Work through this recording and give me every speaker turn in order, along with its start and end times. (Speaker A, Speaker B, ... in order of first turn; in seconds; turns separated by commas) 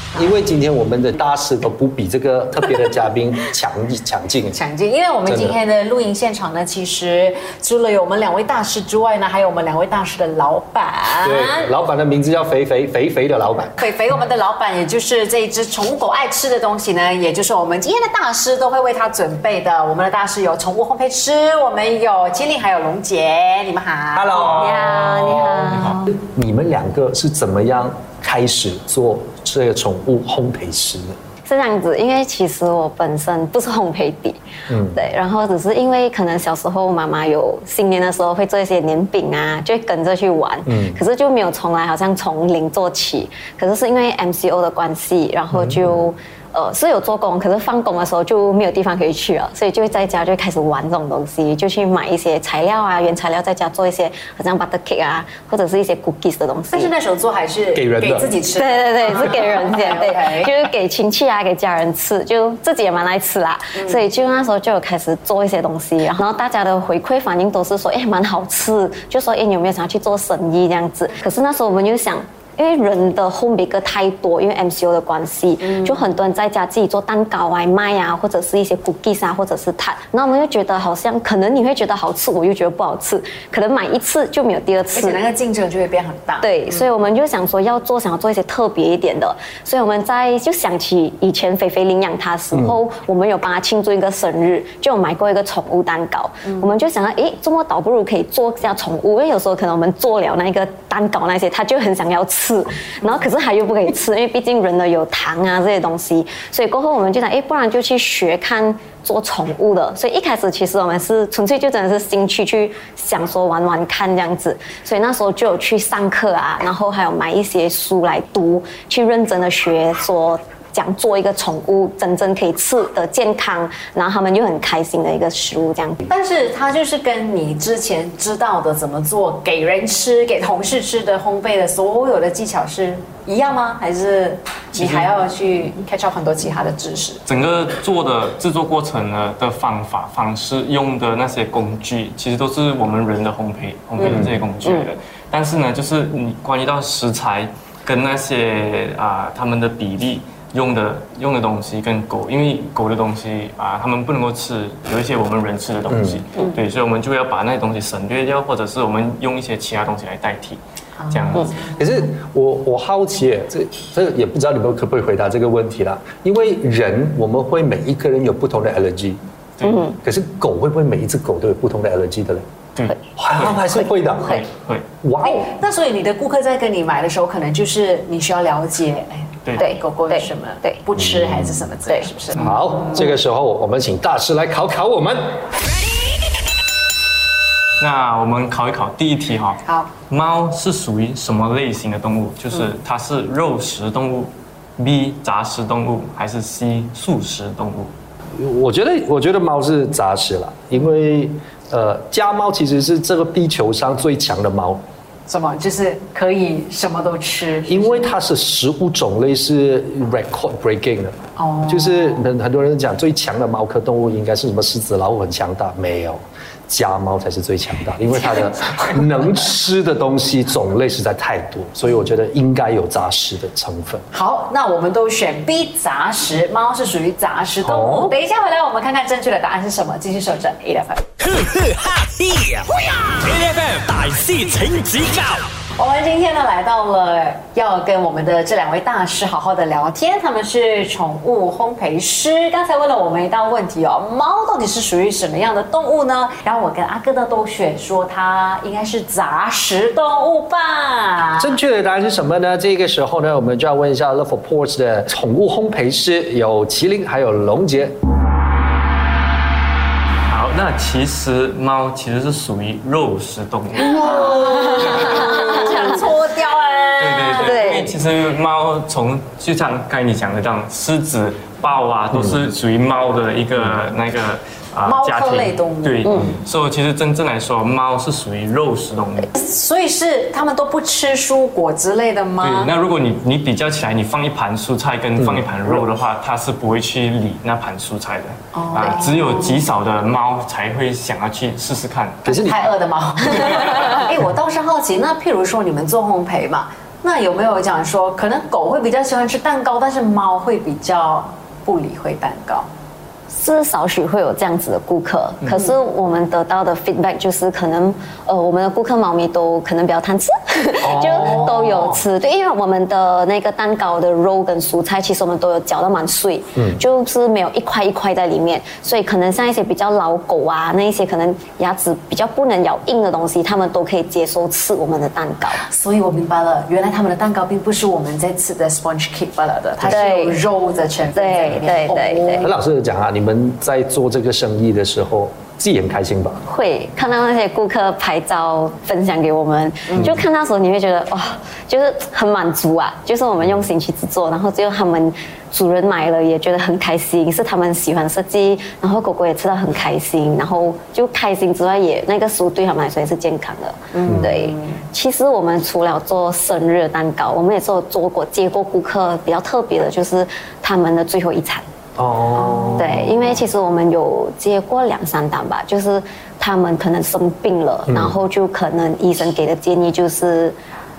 Speaker A: 0.1-4.6, Speaker B: 4.5-11.7, Speaker A: 5.3-5.6, Speaker A: 11.2-13.8, Speaker B: 13.8-24.6, Speaker A: 24.1-31.2, Speaker C: 24.4-26.0, Speaker D: 24.6-26.1, Speaker C: 31.4-34.4, Speaker A: 34.7-35.0, Speaker C: 34.9-56.9, Speaker A: 40.7-41.0, Speaker A: 45.5-46.0, Speaker B: 56.7-60.6, Speaker A: 57.7-58.3, Speaker C: 58.5-85.2, Speaker B: 84.9-86.8, Speaker C: 86.4-126.0, Speaker B: 126.1-137.2, Speaker D: 134.8-135.1, Speaker D: 137.3-161.5, Speaker A: 144.0-144.4, Speaker A: 155.9-156.2, Speaker B: 161.0-161.8, Speaker A: 161.7-169.2, Speaker D: 169.6-169.8, Speaker C: 169.6-170.0, Speaker A: 170.0-172.4, Speaker D: 172.8-174.9, Speaker A: 173.2-174.4, Speaker A: 175.0-175.4, Speaker B: 175.2-182.6, Speaker C: 179.6-180.8, Speaker A: 182.3-185.4, Speaker D: 187.8-197.9, Speaker B: 189.7-189.9, Speaker A: 198.3-204.8, Speaker B: 205.3-208.1, Speaker A: 207.7-224.0, Speaker B: 211.4-212.2, Speaker B: 224.1-231.0, Speaker A: 227.6-228.1, Speaker E: 231.2-235.4, Speaker B: 235.8-251.6, Speaker A: 251.4-258.0, Speaker D: 260.3-264.2, Speaker A: 263.8-264.9, Speaker B: 263.8-267.7, Speaker D: 264.7-265.8, Speaker D: 267.0-279.3, Speaker C: 267.4-268.0, Speaker B: 274.9-276.1, Speaker B: 279.4-282.7, Speaker D: 282.4-292.2, Speaker A: 285.2-285.8, Speaker B: 288.6-289.5, Speaker B: 292.2-302.7, Speaker A: 292.3-292.6, Speaker D: 293.3-293.9, Speaker C: 303.3-325.6, Speaker A: 310.8-312.0, Speaker B: 311.1-311.6, Speaker A: 316.6-316.8, Speaker B: 325.7-332.5, Speaker C: 329.9-330.4, Speaker C: 331.1-332.5, Speaker A: 332.4-336.4, Speaker C: 336.5-361.6, Speaker B: 339.9-340.2, Speaker A: 340.0-340.2, Speaker B: 353.9-354.8, Speaker A: 354.1-354.4, Speaker A: 362.0-363.1, Speaker B: 362.4-363.2, Speaker C: 362.8-370.6, Speaker A: 367.9-368.2